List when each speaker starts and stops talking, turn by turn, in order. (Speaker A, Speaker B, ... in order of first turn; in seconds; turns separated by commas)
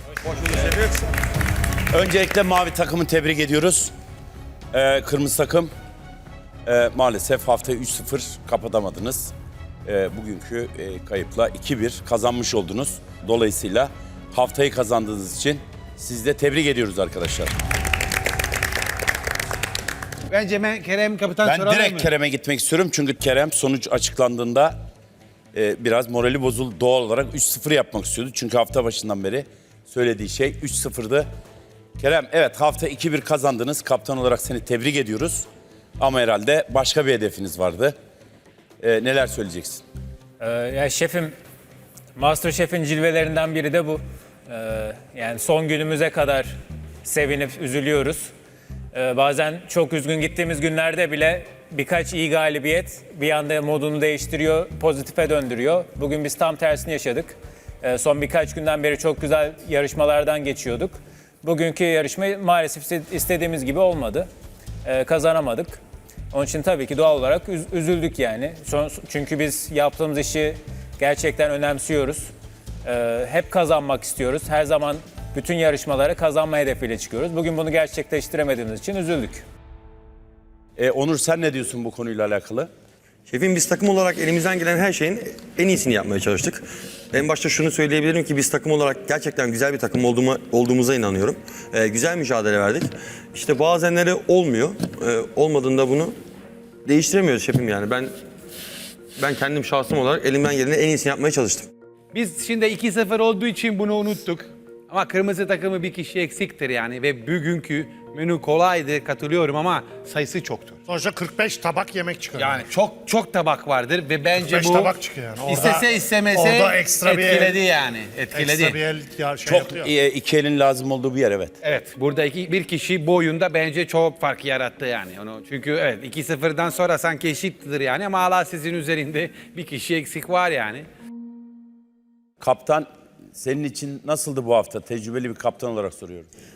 Speaker A: 0.2-1.1, Speaker B: 1.9-3.9, Speaker B: 4.7-5.7, Speaker B: 6.7-9.3, Speaker B: 9.8-17.5, Speaker C: 20.3-22.1, Speaker B: 21.4-24.7, Speaker B: 25.5-31.3, Speaker B: 32.0-35.5, Speaker B: 36.0-37.9, Speaker B: 38.8-39.8, Speaker D: 40.4-41.3, Speaker D: 42.1-46.5, Speaker D: 47.0-48.3, Speaker D: 48.9-64.3, Speaker D: 64.8-65.8, Speaker D: 66.3-72.3, Speaker D: 72.8-79.4, Speaker B: 80.8-82.7, Speaker A: 83.3-96.2, Speaker A: 96.8-98.1, Speaker A: 99.2-101.7, Speaker C: 102.1-110.8, Speaker E: 110.9-112.7, Speaker C: 112.4-118.8, Speaker E: 114.4-117.6, Speaker E: 118.3-119.9, Speaker B: 119.4-121.5, Speaker C: 121.6-130.8, Speaker B: 132.4-136.3